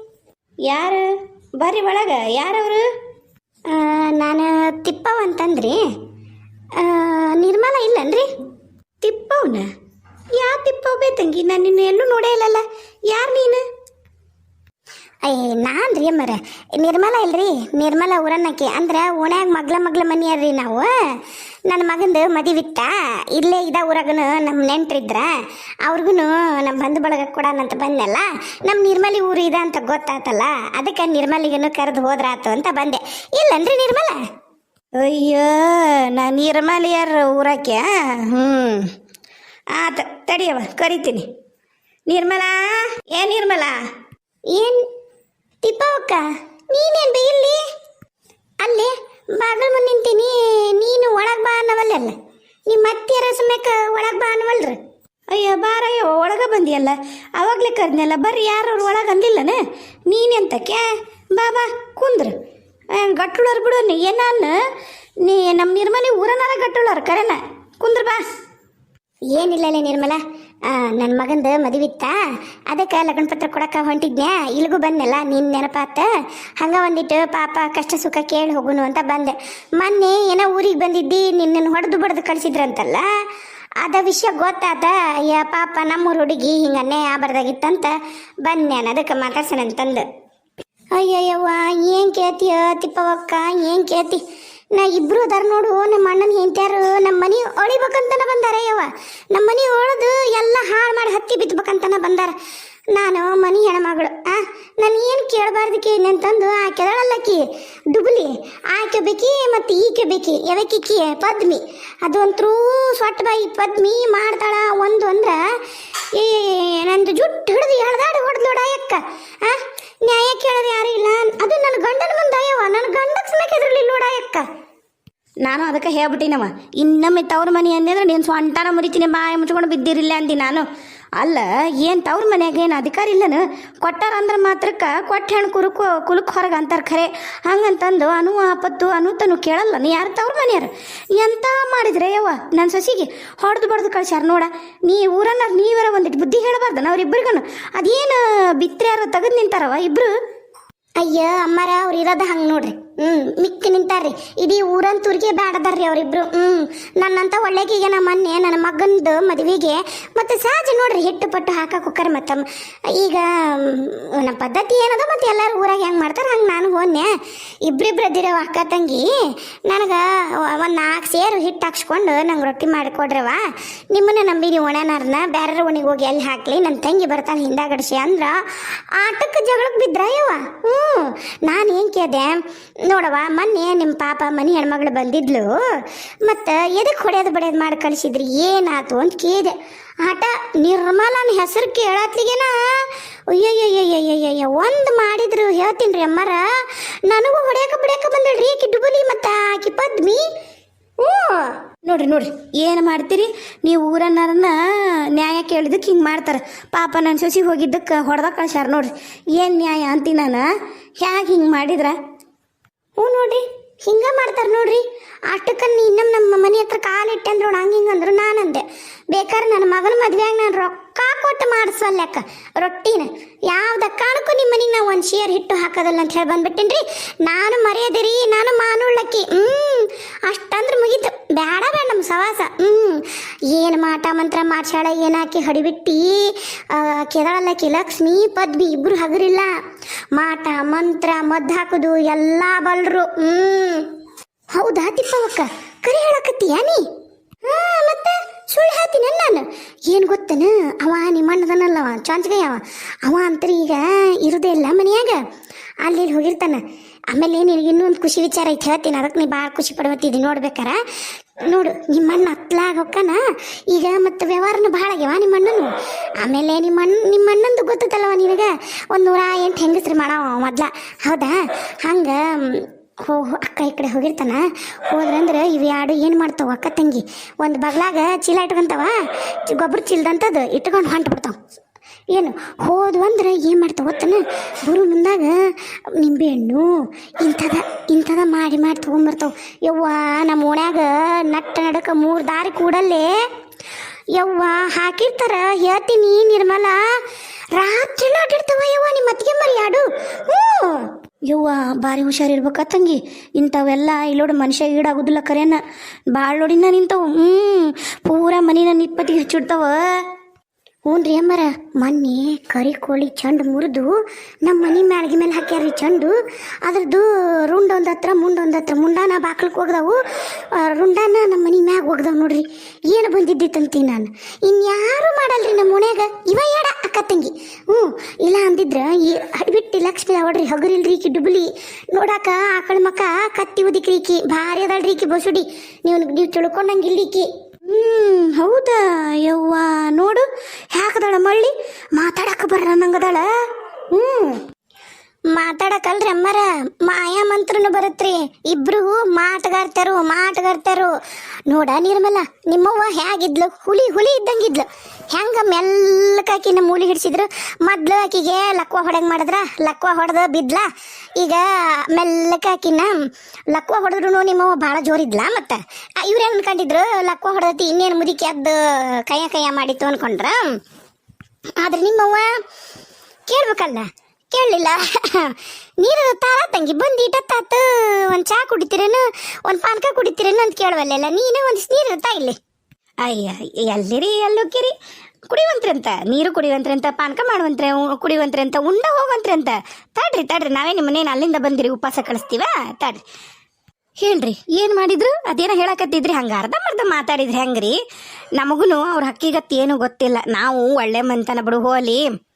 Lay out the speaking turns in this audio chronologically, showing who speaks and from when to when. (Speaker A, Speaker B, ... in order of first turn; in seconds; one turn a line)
Speaker A: 0.7-1.1
Speaker A: 1.6-2.8
Speaker B: 3.7-5.8
Speaker B: 6.8-8.3
Speaker A: 9.0-9.7
Speaker A: 10.4-13.6
Speaker B: 15.2-20.9
Speaker B: 21.7-25.3
Speaker B: 25.8-34.2
Speaker A: 35.0-38.9
Speaker A: 39.7-41.3
Speaker A: 42.1-43.8
Speaker B: 44.5-44.9
Speaker B: 45.6-47.6
Speaker B: 48.6-52.2
Speaker B: 52.7-54.8
Speaker A: 55.3-62.3
Speaker A: 63.0-64.5
Speaker A: 65.2-68.2
Speaker B: 69.3-76.1
Speaker B: 76.6-83.0
Speaker B: 83.8-90.0
Speaker B: 90.9-94.2
Speaker B: 94.7-102.3
Speaker B: 102.9-115.5
Speaker B: 116.1-124.5
Speaker A: 125.4-130.7
Speaker A: 131.2-150.1
Speaker B: 151.0-167.1
Speaker B: 167.7-169.1
Speaker B: 169.7-200.3
Speaker B: 201.0-201.6
Speaker A: 201.8-210.5
Speaker A: 211.0-211.9
Speaker B: 213.0-239.5
Speaker B: 240.1-243.9
Speaker B: 244.5-246.8
Speaker B: 247.4-255.2
Speaker B: 255.8-260.8
Speaker B: 261.4-281.4
Speaker B: 282.1-293.2
Speaker B: 294.1-297.0
Speaker B: 297.6-302.5
Speaker A: 301.3-305.6
Speaker A: 306.1-309.8
Speaker B: 310.9-320.0
Speaker B: 320.5-338.3
Speaker A: 338.0-340.2
Speaker A: 340.8-342.0
Speaker B: 340.8-341.4
Speaker B: 342.0-343.2
Speaker B: 343.9-344.4
Speaker B: 345.3-350.9
Speaker B: 351.5-362.9
Speaker B: 363.5-370.5
Speaker B: 371.6-372.4
Speaker B: 373.3-382.4
Speaker A: 383.0-384.7
Speaker A: 385.3-393.0
Speaker A: 394.0-397.8
Speaker A: 398.4-402.0